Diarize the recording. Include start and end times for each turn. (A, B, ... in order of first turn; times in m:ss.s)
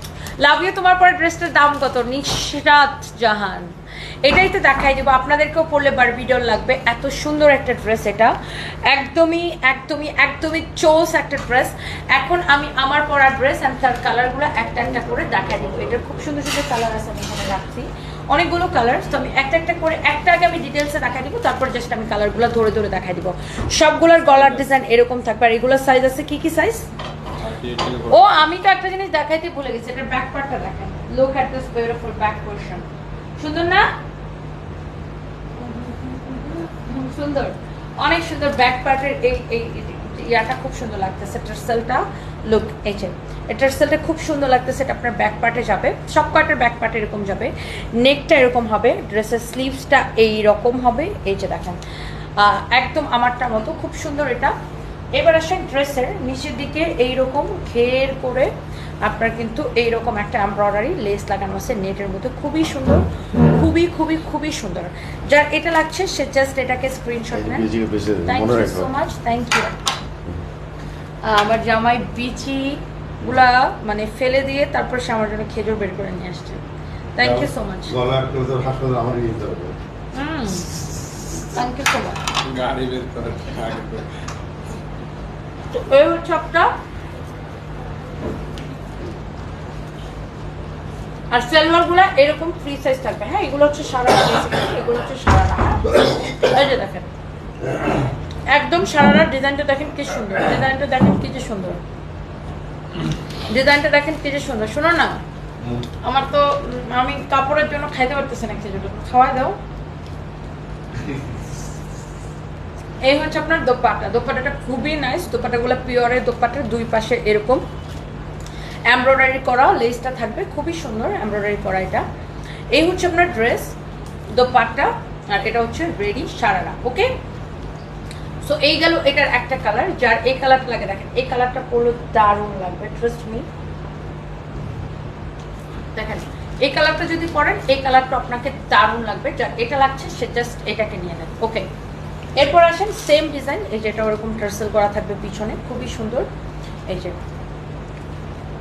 0:00.4-0:26.9 A
0:24.3-0:24.7 B
0:27.4-0:28.4 B
0:28.1-0:32.8 A
0:33.4-0:33.9 A
0:35.6-0:51.8 A
0:52.4-0:54.5 A
0:55.2-1:07.7 A
1:07.3-1:08.9 C
1:08.2-1:09.8 A
1:11.2-1:16.6 A
1:17.2-1:18.0 A
1:17.2-1:19.8 C
1:20.1-1:20.8 A
1:21.4-1:22.2 A
1:22.4-1:24.2 B
1:25.7-1:26.7 A
1:31.3-1:37.1 A
1:38.5-1:41.8 A
1:43.5-1:45.2 A
1:46.0-1:49.6 A
1:51.0-1:51.2 C
1:53.0-1:57.6 A
1:58.9-2:02.0 A
2:02.7-2:03.8 A
2:04.3-2:07.1 A
2:08.4-2:13.5 A
2:15.9-2:21.7 A
2:22.4-2:26.3 A
2:26.9-2:27.2 A